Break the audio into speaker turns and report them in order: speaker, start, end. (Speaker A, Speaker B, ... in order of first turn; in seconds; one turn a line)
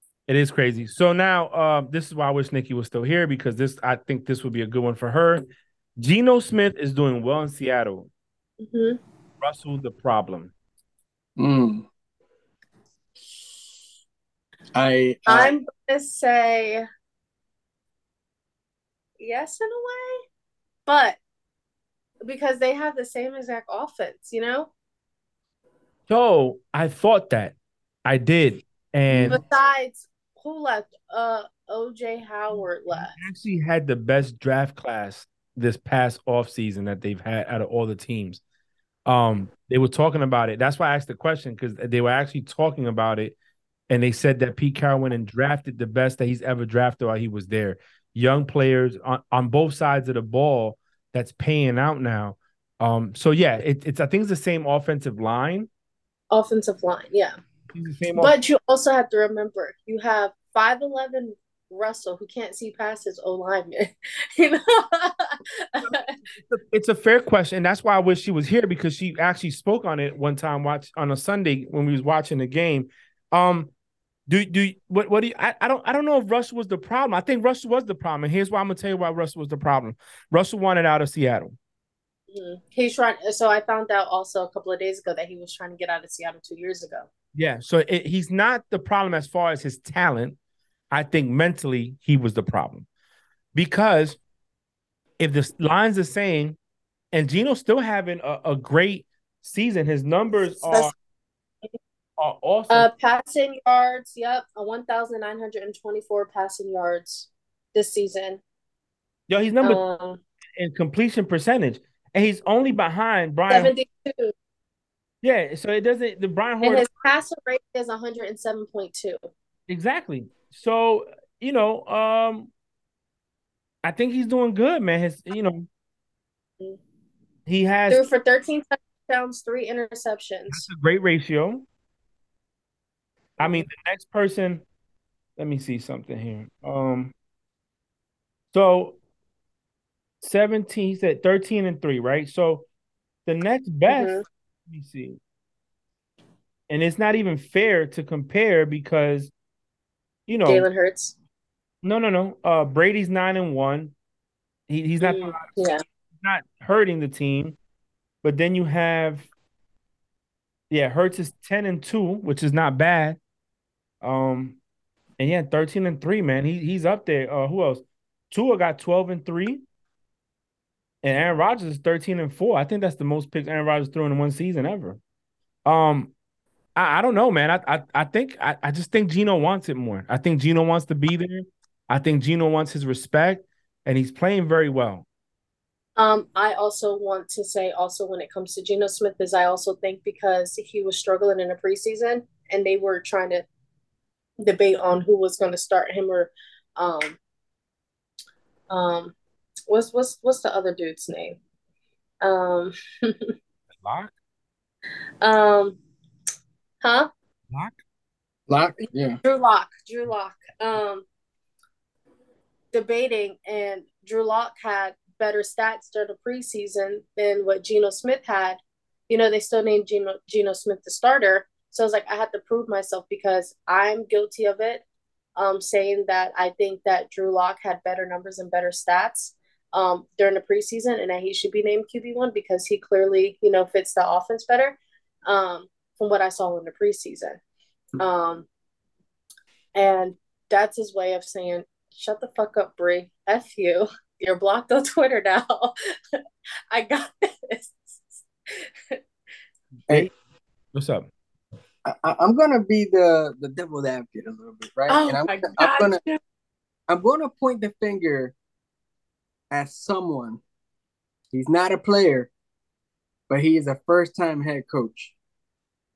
Speaker A: 0.3-8.1
Speaker B: 8.6-9.0
Speaker A: 9.4-10.5
Speaker C: 11.4-11.9
Speaker C: 14.7-15.5
Speaker B: 15.3-16.8
Speaker B: 19.2-20.2
Speaker B: 20.9-21.2
Speaker B: 22.2-24.7
Speaker A: 26.1-29.4
Speaker C: 29.1-29.4
Speaker B: 29.3-33.1
Speaker A: 32.5-38.4
Speaker A: 39.0-43.3
Speaker A: 43.9-55.7
Speaker B: 56.3-57.4
Speaker A: 57.7-58.3
Speaker B: 58.1-66.1
Speaker A: 65.8-73.7
Speaker A: 74.3-81.5
Speaker B: 82.3-87.1
Speaker A: 87.3-90.4
Speaker A: 90.9-92.9
Speaker A: 93.5-94.2
Speaker A: 95.2-96.6
Speaker A: 97.1-100.9
Speaker A: 102.2-102.9
Speaker B: 102.7-108.4
Speaker A: 109.3-109.8
Speaker B: 109.6-110.2
Speaker A: 110.6-113.7
Speaker B: 113.5-114.3
Speaker A: 115.2-116.9
Speaker B: 116.6-119.2
Speaker A: 119.7-122.5
Speaker A: 123.8-125.7
Speaker A: 127.5-128.1
Speaker B: 127.9-130.7
Speaker A: 130.5-131.6
Speaker A: 133.4-134.6
Speaker A: 135.4-137.1
Speaker A: 138.5-139.0
Speaker A: 140.2-142.7
Speaker A: 143.3-145.2
Speaker B: 143.9-144.2
Speaker A: 146.7-149.3
Speaker A: 150.3-150.7
Speaker B: 150.4-151.1
Speaker A: 151.8-153.9
Speaker A: 154.7-155.7
Speaker B: 155.0-155.8
Speaker A: 156.2-157.6
Speaker A: 158.2-159.3
Speaker A: 160.7-163.2
Speaker A: 164.0-164.6
Speaker A: 165.2-169.6
Speaker A: 171.0-175.0
Speaker A: 175.7-176.1
Speaker A: 176.8-185.1
Speaker B: 186.0-193.4
Speaker B: 194.4-197.2
Speaker B: 198.7-199.1
Speaker B: 199.7-201.4
Speaker B: 202.2-203.3
Speaker A: 203.8-204.1
Speaker B: 205.2-205.8
Speaker B: 206.8-207.1
Speaker A: 207.5-207.8
Speaker C: 208.5-209.2
Speaker B: 209.2-211.1
Speaker B: 212.7-224.8
Speaker B: 225.4-237.4
Speaker B: 238.0-238.4
Speaker B: 239.7-246.2
Speaker B: 246.7-249.0
Speaker A: 250.7-251.1
Speaker C: 251.8-256.0
Speaker B: 254.9-256.2
Speaker C: 256.9-258.3
Speaker C: 259.5-260.4
Speaker C: 261.3-262.3
Speaker C: 263.3-265.1